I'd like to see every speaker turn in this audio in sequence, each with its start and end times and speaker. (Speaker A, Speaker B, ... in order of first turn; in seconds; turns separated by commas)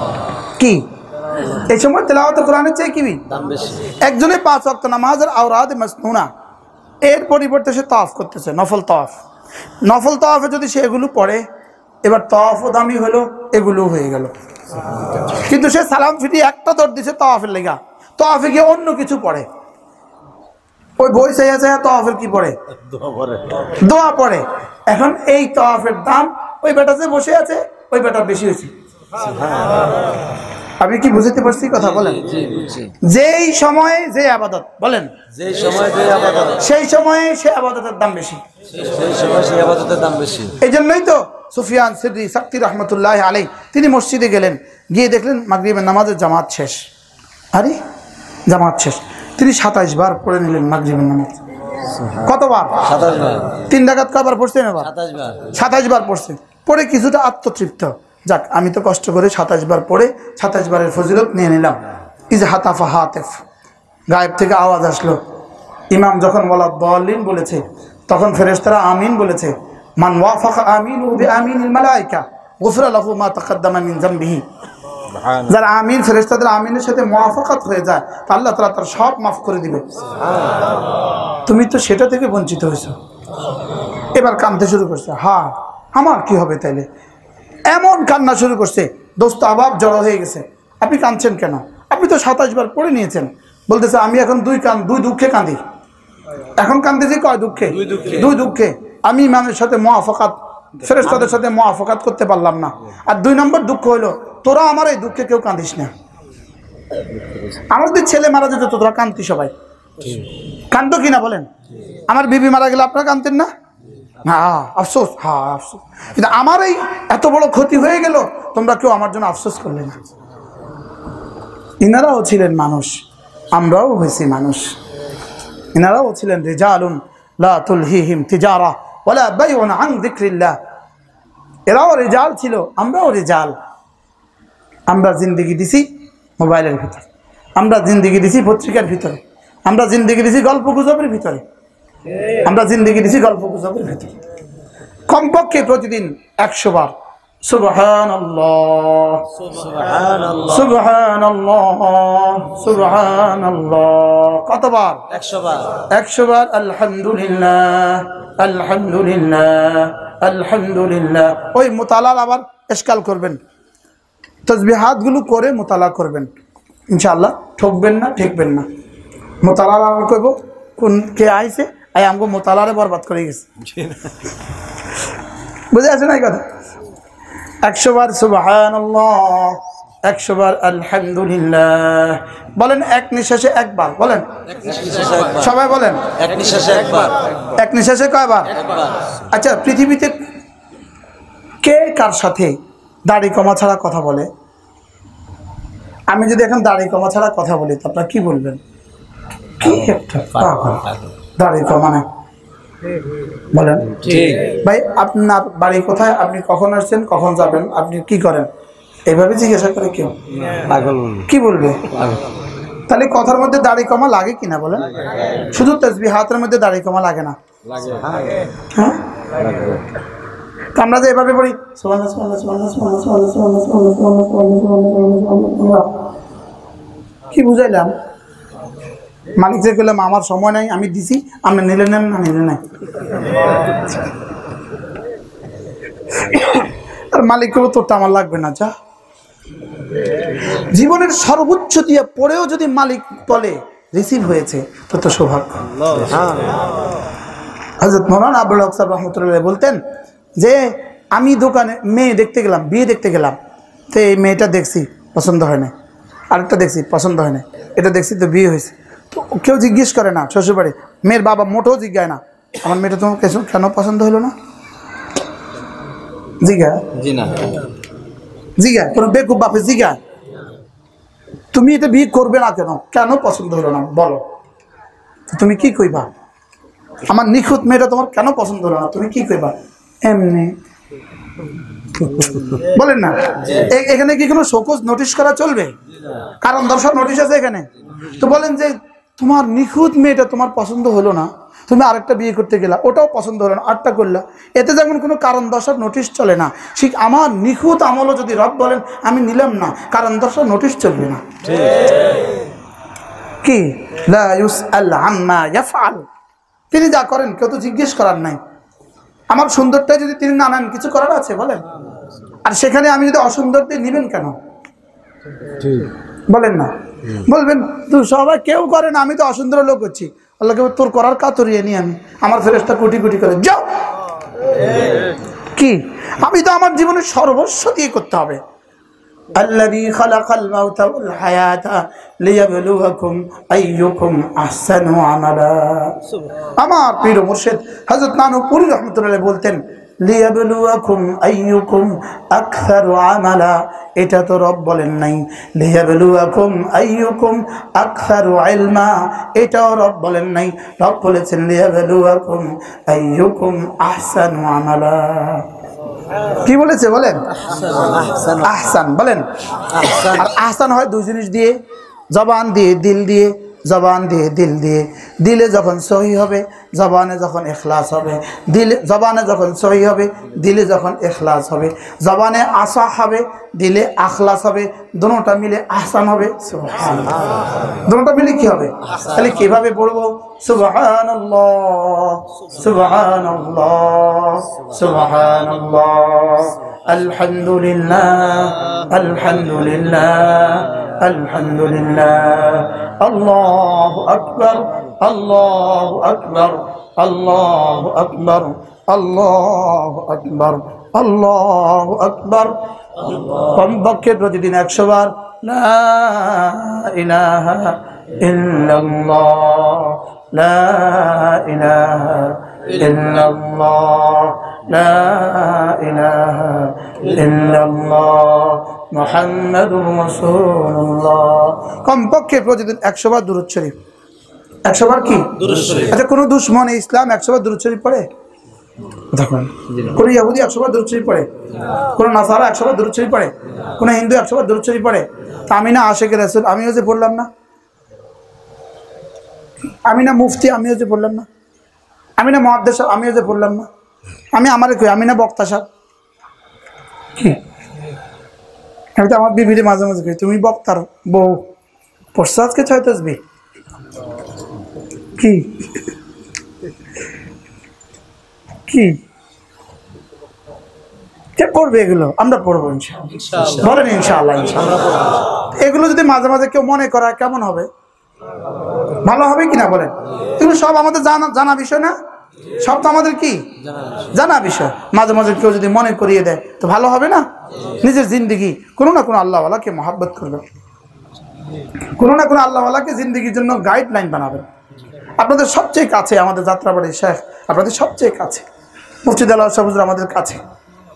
Speaker A: 0.6-0.8, Speaker A: 1.5-3.2, Speaker B: 3.3-4.0, Speaker A: 4.0-6.3, Speaker A: 7.1-9.2, Speaker A: 9.8-11.4, Speaker A: 12.0-14.3, Speaker A: 15.3-19.5, Speaker A: 21.0-22.6, Speaker B: 22.9-23.7, Speaker A: 23.7-28.7, Speaker B: 29.3-29.9, Speaker A: 30.8-32.3, Speaker B: 32.2-32.9, Speaker A: 33.0-35.1, Speaker B: 35.3-36.6, Speaker A: 36.5-38.4, Speaker B: 38.8-40.6, Speaker A: 40.6-46.9, Speaker A: 48.5-51.4, Speaker B: 51.9-52.2, Speaker A: 52.1-53.0, Speaker B: 52.8-53.7, Speaker A: 53.6-63.4, Speaker B: 54.9-55.5, Speaker A: 64.1-65.2, Speaker A: 65.9-74.4, Speaker B: 75.2-75.4, Speaker A: 75.3-79.8, Speaker A: 81.5-83.0, Speaker A: 84.2-86.9, Speaker A: 87.7-95.6, Speaker A: 96.6-105.9, Speaker B: 97.8-98.2, Speaker B: 107.0-107.6, Speaker A: 107.7-109.5, Speaker A: 110.7-111.5, Speaker A: 112.1-113.5, Speaker A: 114.2-120.0, Speaker A: 121.8-124.8, Speaker A: 125.7-130.6, Speaker A: 131.7-133.5, Speaker A: 134.9-135.9, Speaker A: 136.4-141.4, Speaker A: 142.4-144.1, Speaker A: 145.1-146.9, Speaker A: 147.4-149.3, Speaker B: 149.4-150.7, Speaker A: 150.5-155.0, Speaker B: 155.1-155.8, Speaker A: 155.8-163.4, Speaker A: 164.5-166.3, Speaker A: 166.9-168.7, Speaker A: 169.4-173.5, Speaker B: 173.8-174.1, Speaker A: 175.7-176.4, Speaker A: 177.6-184.3, Speaker B: 184.5-185.5, Speaker A: 185.4-186.1, Speaker B: 186.1-187.2, Speaker A: 187.5-188.6, Speaker A: 189.2-190.2, Speaker A: 191.6-194.3, Speaker A: 196.1-198.6, Speaker A: 199.6-200.8, Speaker B: 200.4-201.1, Speaker A: 201.4-202.1, Speaker A: 203.5-208.5, Speaker B: 203.9-204.6, Speaker A: 209.1-210.1, Speaker B: 210.4-211.3, Speaker A: 211.3-211.9, Speaker B: 211.9-212.2, Speaker A: 212.9-217.4, Speaker B: 217.7-218.4, Speaker A: 218.7-219.0, Speaker B: 219.3-219.8, Speaker A: 220.8-225.9, Speaker A: 227.3-227.9, Speaker A: 229.4-232.6, Speaker A: 236.1-238.7, Speaker A: 240.4-245.7, Speaker B: 245.9-246.5, Speaker A: 247.8-249.8, Speaker A: 250.4-253.4, Speaker A: 253.9-255.7, Speaker A: 256.3-264.3, Speaker A: 266.4-266.9, Speaker B: 266.9-267.7, Speaker A: 268.6-270.0, Speaker A: 271.5-274.2, Speaker A: 275.3-276.1, Speaker A: 277.0-280.6, Speaker B: 281.9-282.6, Speaker A: 282.5-285.7, Speaker B: 283.4-283.7, Speaker A: 286.4-301.2, Speaker A: 303.4-306.1, Speaker A: 306.7-308.4, Speaker A: 309.3-311.7, Speaker A: 312.4-314.4, Speaker B: 315.5-315.9, Speaker A: 316.3-323.6, Speaker A: 325.6-328.4, Speaker A: 329.3-336.0, Speaker A: 336.6-355.5, Speaker A: 356.3-357.2, Speaker B: 357.5-358.6, Speaker A: 358.4-361.6, Speaker B: 359.6-360.3, Speaker A: 362.1-423.7, Speaker A: 424.7-428.1, Speaker B: 425.4-426.0, Speaker A: 429.1-437.3, Speaker B: 429.7-430.0, Speaker A: 439.9-441.3, Speaker A: 442.2-443.7, Speaker A: 444.3-445.6, Speaker A: 449.0-451.5, Speaker A: 452.1-453.2, Speaker A: 455.2-455.7, Speaker A: 458.7-459.0, Speaker A: 461.4-464.8, Speaker B: 463.2-463.6, Speaker B: 464.9-465.1, Speaker A: 465.4-467.7, Speaker A: 469.0-471.9, Speaker A: 472.6-473.4, Speaker B: 473.6-474.1, Speaker A: 474.1-477.2, Speaker A: 477.8-480.4, Speaker A: 481.9-484.5, Speaker A: 485.2-488.4, Speaker A: 489.0-490.4